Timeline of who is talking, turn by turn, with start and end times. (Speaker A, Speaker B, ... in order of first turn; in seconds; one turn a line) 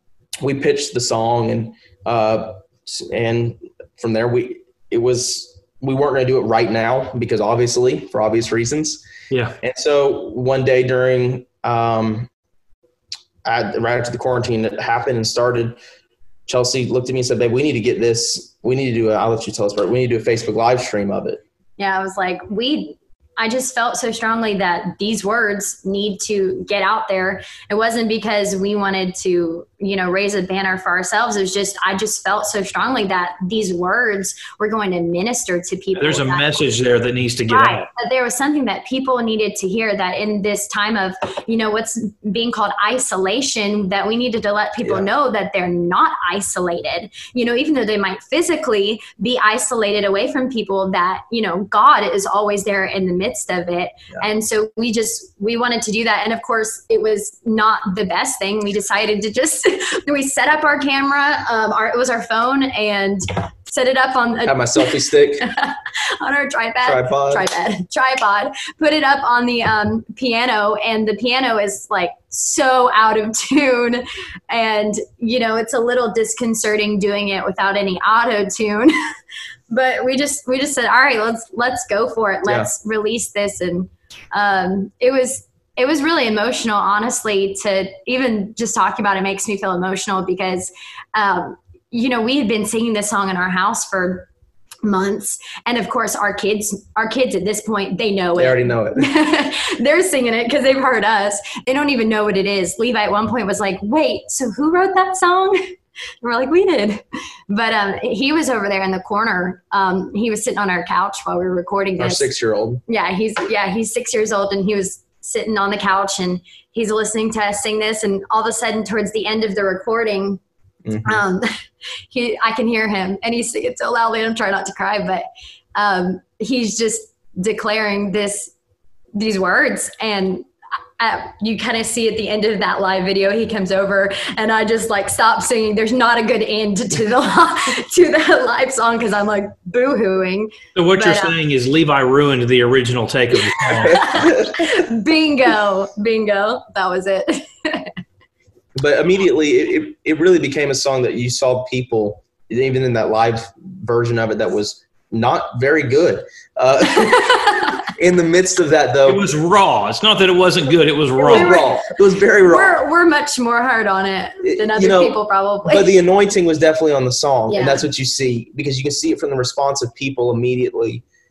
Speaker A: 0.4-9.0
Speaker B: 9.3-9.6
Speaker A: 9.6-12.3
Speaker A: 13.4-15.8
Speaker A: 16.5-21.4
Speaker C: 21.8-36.6
Speaker B: 36.0-37.9
Speaker C: 37.5-78.9
Speaker A: 64.4-65.5
Speaker A: 66.8-67.5
Speaker C: 79.7-94.3
Speaker A: 82.5-82.7
Speaker C: 94.8-105.6
Speaker A: 98.4-99.1
Speaker C: 106.2-112.3
Speaker A: 112.0-112.8
Speaker C: 112.9-120.4
Speaker A: 120.8-121.2
Speaker C: 121.0-121.5
Speaker C: 122.1-128.5
Speaker C: 129.1-130.4
Speaker C: 131.0-141.3
Speaker B: 140.7-144.4
Speaker C: 143.7-147.9
Speaker A: 143.9-144.4
Speaker A: 148.8-159.2
Speaker C: 157.0-157.7
Speaker B: 159.1-161.6
Speaker A: 161.2-162.8
Speaker C: 161.2-161.6
Speaker C: 162.4-165.9
Speaker A: 164.4-171.0
Speaker C: 167.5-167.8